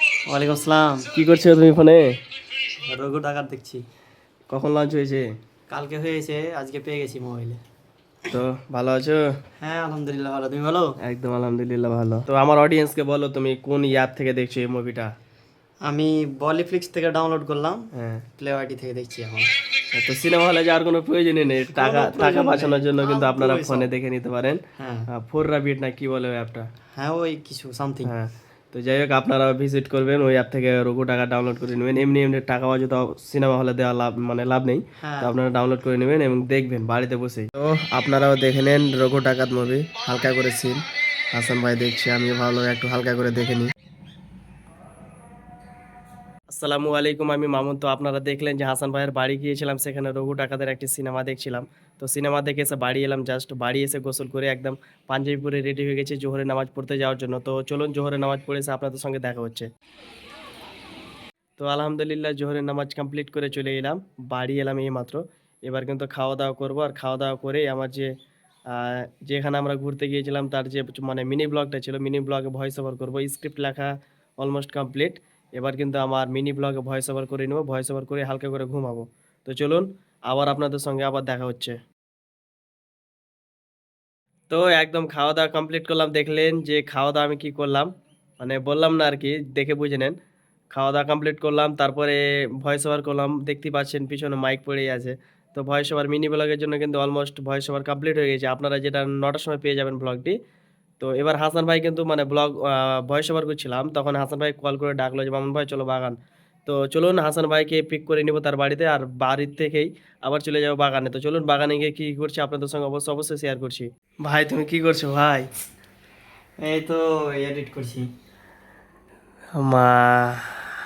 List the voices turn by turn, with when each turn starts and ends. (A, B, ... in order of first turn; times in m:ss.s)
0:00.2-0:01.1 A
0:01.1-0:02.2 B
0:02.7-0:03.8 A
0:04.5-0:05.3 B
0:05.7-0:07.6 A
0:08.3-0:09.2 B
0:09.6-0:11.0 A
0:11.0-0:15.1 B
0:15.8-0:19.5 A
0:17.9-0:18.2 B
0:19.9-0:26.7 B
0:21.7-0:23.9 A
0:24.8-0:25.1 A
0:26.9-0:28.1 A
0:28.0-0:40.8 B
0:35.0-0:35.4 A
0:41.3-0:43.7 B
0:46.5-0:59.7 B
1:01.6-1:08.1 B
1:08.7-1:21.8 B
1:24.5-1:30.1 B
1:30.7-1:40.4 B
1:41.0-1:55.5 B
1:56.6-1:58.1 A
1:59.6-2:00.7 B